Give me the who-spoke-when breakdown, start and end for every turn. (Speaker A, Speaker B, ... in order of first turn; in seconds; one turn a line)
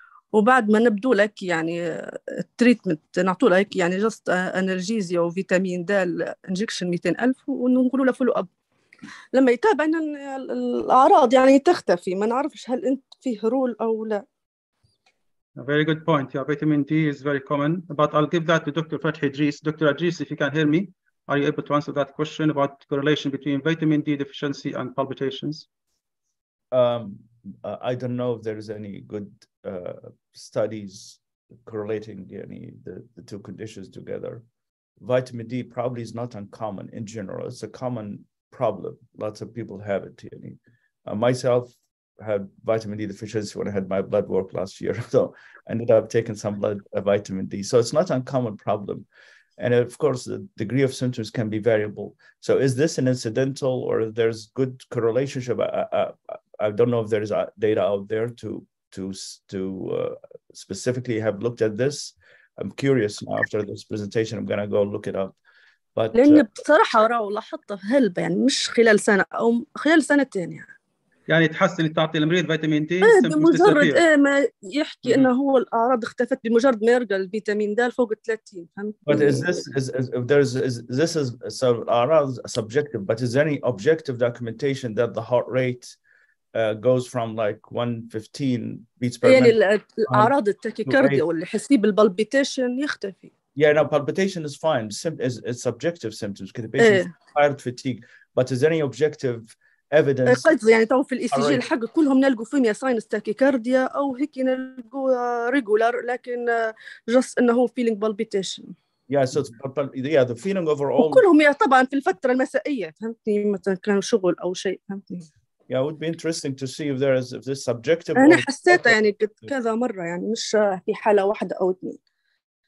Speaker A: 0.3-8.5
Speaker A: 9.3-14.2
Speaker B: 15.6-25.7
Speaker C: 26.7-34.4
Speaker C: 35.0-49.1
Speaker C: 49.6-65.4
Speaker C: 65.9-66.5
Speaker A: 66.1-70.7
Speaker B: 71.3-74.0
Speaker A: 73.0-79.6
Speaker C: 79.0-86.0
Speaker C: 86.5-89.5
Speaker A: 89.2-93.3
Speaker C: 90.1-90.3
Speaker C: 90.8-91.2
Speaker C: 93.5-100.5
Speaker A: 96.8-97.1
Speaker A: 100.2-108.7
Speaker C: 101.3-101.7
Speaker C: 109.1-111.2
Speaker A: 111.0-115.3
Speaker C: 115.7-119.5
Speaker A: 118.2-122.0